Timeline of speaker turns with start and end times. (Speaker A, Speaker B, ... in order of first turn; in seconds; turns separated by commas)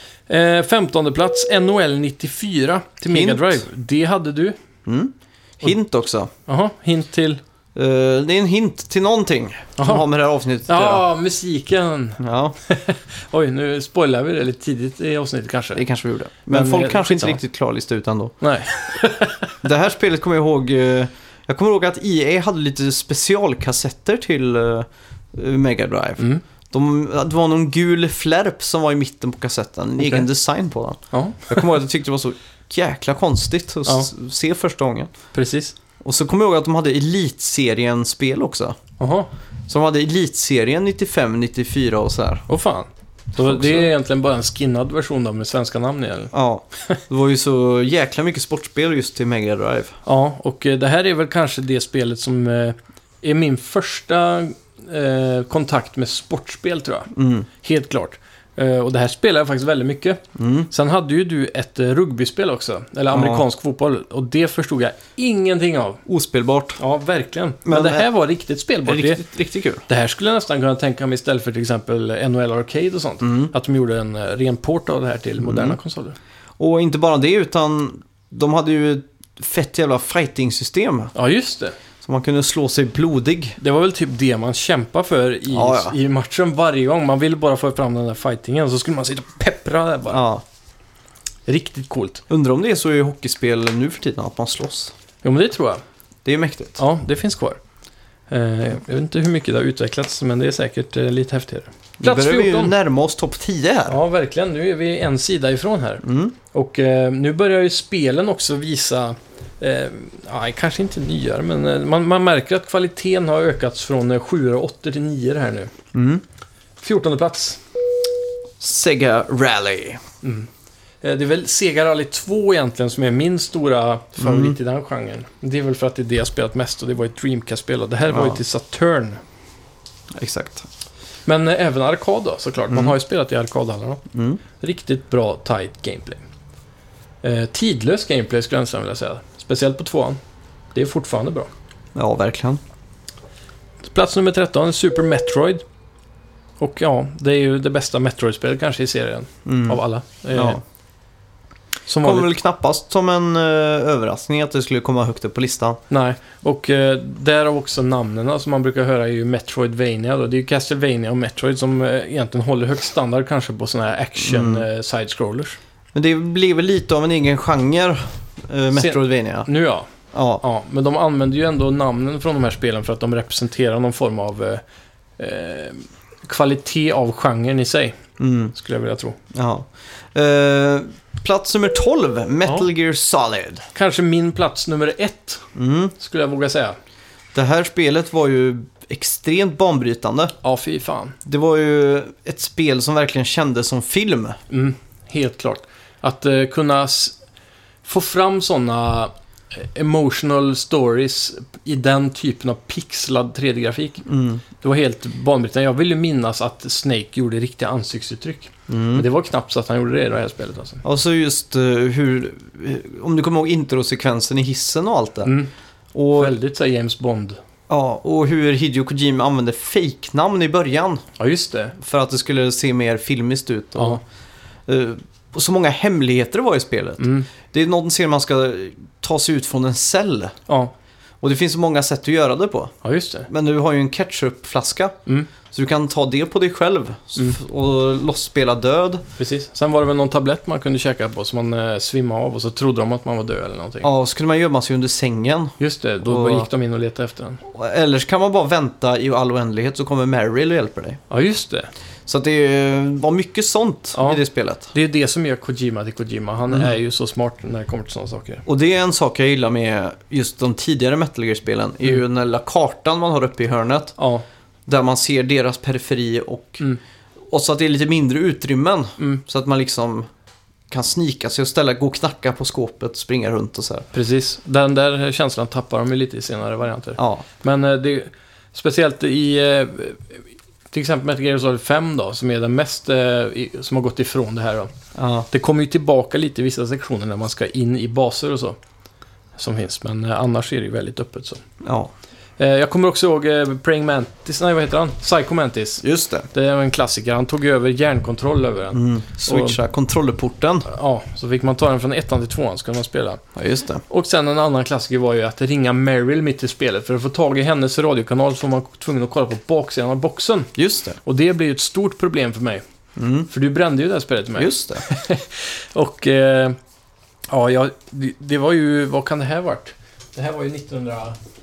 Speaker A: 0.3-4.6, Speaker B: 3.1-3.6, Speaker B: 4.8-6.3, Speaker A: 6.5-7.4, Speaker B: 7.7-11.0, Speaker A: 9.8-10.0, Speaker A: 10.7-15.8, Speaker B: 12.2-12.6, Speaker B: 15.7-18.4, Speaker A: 16.5-17.4, Speaker A: 18.4-19.5, Speaker B: 19.6-35.1, Speaker A: 30.0-30.3, Speaker A: 31.1-31.7, Speaker A: 35.3-35.7, Speaker B: 36.0-38.8, Speaker A: 39.0-39.3, Speaker B: 39.7-42.5, Speaker A: 42.5-46.3, Speaker B: 43.4-43.9, Speaker B: 46.3-50.0, Speaker A: 50.1-66.0, Speaker B: 57.1-57.5, Speaker B: 60.4-60.7, Speaker B: 63.1-63.5, Speaker B: 66.1-66.8, Speaker A: 66.8-69.2, Speaker B: 67.6-68.1, Speaker B: 68.9-69.8, Speaker A: 69.9-76.2, Speaker B: 73.2-73.5, Speaker B: 75.4-75.8, Speaker B: 76.6-81.1, Speaker A: 81.1-81.7, Speaker B: 82.0-83.6, Speaker A: 83.6-90.2, Speaker B: 85.5-86.0, Speaker B: 90.1-90.4, Speaker A: 91.5-92.2, Speaker B: 92.3-94.9, Speaker A: 95.2-95.8, Speaker B: 96.2-96.8, Speaker A: 96.8-97.6, Speaker A: 98.3-102.7, Speaker B: 102.0-104.0, Speaker A: 103.9-115.7, Speaker B: 106.0-106.3, Speaker B: 115.9-116.2, Speaker A: 116.8-117.6, Speaker B: 118.6-120.0, Speaker A: 120.2-120.5, Speaker A: 121.0-129.2, Speaker B: 124.2-124.6, Speaker B: 128.1-128.4, Speaker B: 130.1-130.7, Speaker A: 131.3-134.0, Speaker B: 132.7-132.9, Speaker B: 134.1-134.4, Speaker A: 134.6-136.2, Speaker A: 137.2-140.2, Speaker A: 140.7-141.5, Speaker B: 141.9-142.6, Speaker A: 143.8-145.6, Speaker A: 146.6-150.6, Speaker B: 149.4-149.8, Speaker B: 150.3-150.6, Speaker A: 151.9-152.3, Speaker B: 152.0-155.8, Speaker A: 155.9-165.6, Speaker B: 164.2-164.7, Speaker B: 165.9-169.5, Speaker A: 168.7-169.9, Speaker B: 170.1-170.4, Speaker A: 170.4-174.6, Speaker A: 175.2-178.0, Speaker B: 178.2-178.5, Speaker A: 178.5-179.2, Speaker B: 179.3-183.7, Speaker A: 183.7-185.4, Speaker B: 185.6-185.9, Speaker A: 185.9-186.8, Speaker B: 187.3-190.3, Speaker A: 190.4-191.2, Speaker B: 191.2-194.4, Speaker A: 194.5-197.2, Speaker A: 197.8-204.1, Speaker B: 204.1-204.4, Speaker A: 204.6-210.8, Speaker B: 208.7-209.1, Speaker B: 210.8-215.3, Speaker A: 215.2-215.5, Speaker B: 215.9-216.4, Speaker A: 216.1-217.4, Speaker B: 217.7-221.0, Speaker A: 221.2-221.8, Speaker B: 221.8-224.0, Speaker B: 224.7-230.4, Speaker A: 227.0-227.3, Speaker B: 231.2-232.7, Speaker A: 232.8-233.3, Speaker B: 233.3-239.0, Speaker A: 239.2-243.9, Speaker B: 243.8-246.5, Speaker A: 245.6-247.4, Speaker B: 247.5-251.0, Speaker A: 251.1-251.7, Speaker B: 252.1-254.7, Speaker A: 253.9-258.4, Speaker B: 258.4-263.9, Speaker A: 264.0-264.2, Speaker B: 264.7-266.6, Speaker B: 267.3-270.1, Speaker B: 270.7-273.9, Speaker A: 273.9-284.7, Speaker B: 277.0-277.2, Speaker B: 284.9-285.3, Speaker A: 285.3-288.6, Speaker A: 289.4-291.4, Speaker B: 291.6-291.9, Speaker A: 292.4-299.6, Speaker B: 295.8-296.3, Speaker B: 298.7-300.7, Speaker A: 300.7-303.2, Speaker B: 303.4-303.8, Speaker A: 303.9-312.6, Speaker B: 310.6-311.0, Speaker B: 312.9-313.3, Speaker A: 313.3-316.6, Speaker B: 314.4-314.9, Speaker A: 317.3-321.2